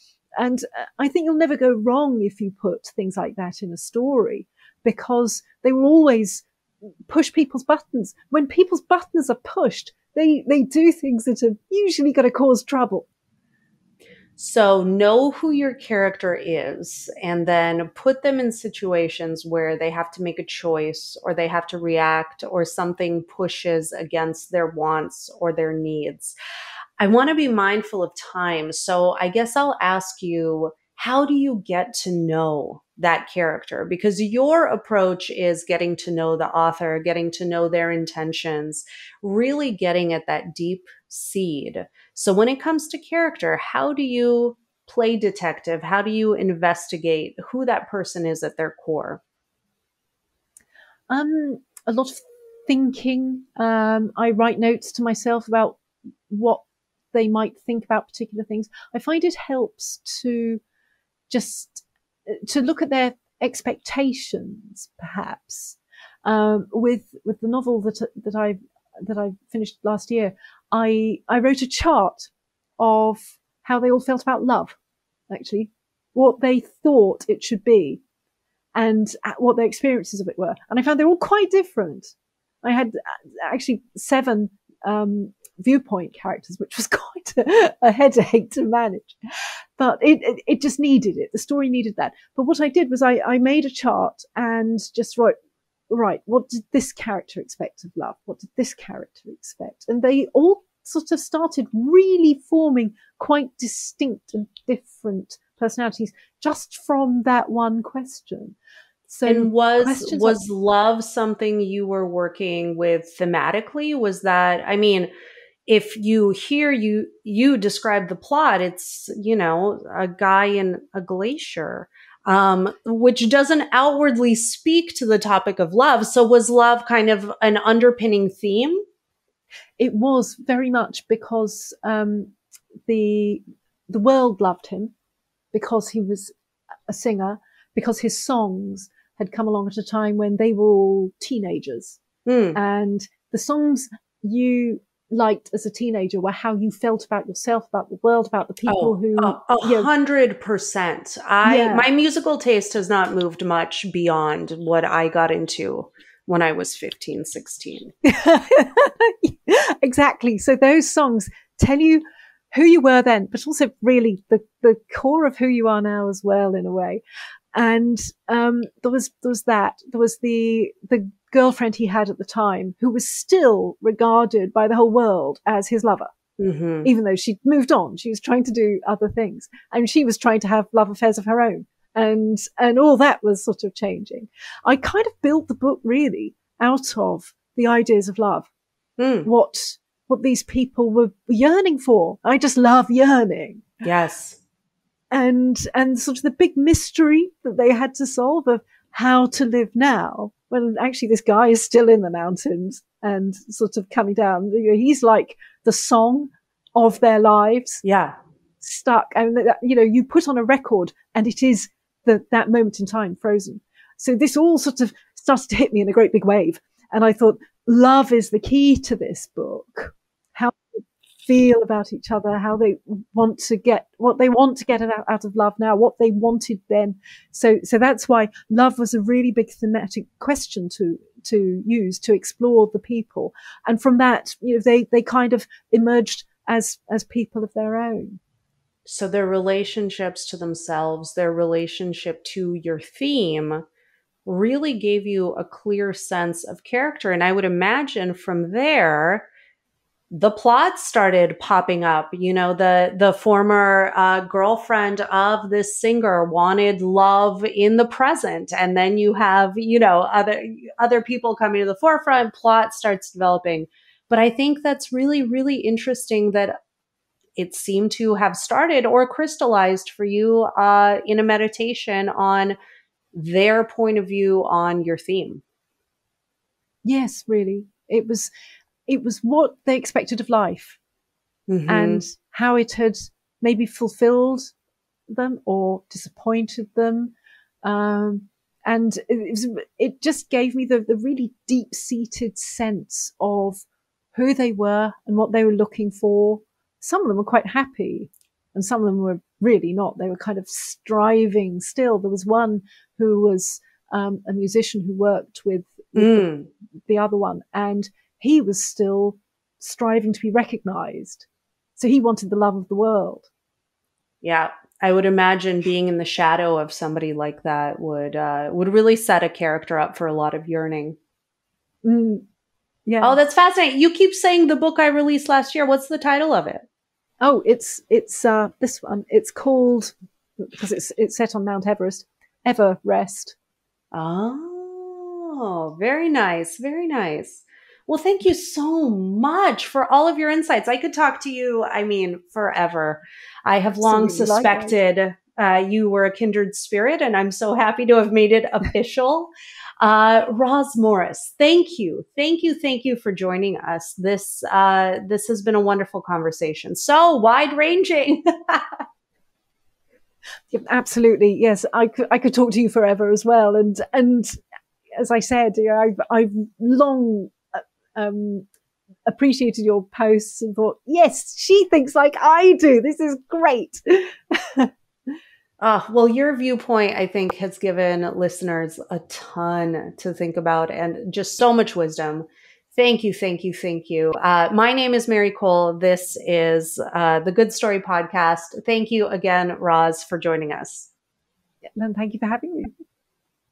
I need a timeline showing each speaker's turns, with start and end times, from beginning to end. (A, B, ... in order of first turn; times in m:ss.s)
0:00.4-0:06.4 A
0:07.1-0:13.1 A
0:14.4-0:26.4 B
0:27.0-0:49.2 B
0:51.1-1:00.6 A
1:01.3-1:14.8 A
1:15.3-1:18.0 A
1:18.7-1:29.2 A
1:29.8-1:35.3 A
1:35.9-1:48.6 A
1:49.1-1:50.4 A
1:49.2-1:55.1 B
1:55.7-2:08.8 B
2:09.8-2:12.3 A
2:12.8-2:14.9 A
2:15.5-2:16.3 A
2:16.9-2:22.0 A
2:22.2-2:22.6 B
2:22.5-2:29.9 A
2:28.7-2:37.9 B
2:31.4-2:31.8 A
2:38.0-2:47.0 A
2:47.5-2:56.1 A
2:56.4-2:56.9 B
2:56.8-3:08.5 A
3:09.0-3:09.3 B
3:09.2-3:13.7 A
3:13.8-3:14.4 B
3:15.1-3:27.8 A
3:27.8-3:28.1 B
3:28.6-3:58.2 A
3:58.8-4:03.6 B
4:04.2-4:09.3 B
4:10.1-4:26.5 B
4:27.4-4:32.6 B
4:33.1-4:35.4 B
4:36.8-4:38.3 A
4:38.9-4:40.8 A
4:41.5-4:42.0 B
4:41.7-4:44.5 A
4:45.1-5:06.3 A
5:06.0-5:06.5 B
5:06.9-5:11.2 A
5:11.8-5:13.3 A
5:14.2-5:21.0 B
5:21.8-5:22.2 A
5:22.9-5:23.2 A
5:23.0-5:26.6 B
5:27.2-5:33.4 A
5:33.9-5:58.8 B
5:43.8-5:44.8 A
6:00.5-6:04.4 A
6:04.9-6:08.5 A
6:09.0-6:14.7 A
6:15.6-6:30.9 B
6:31.8-6:32.7 A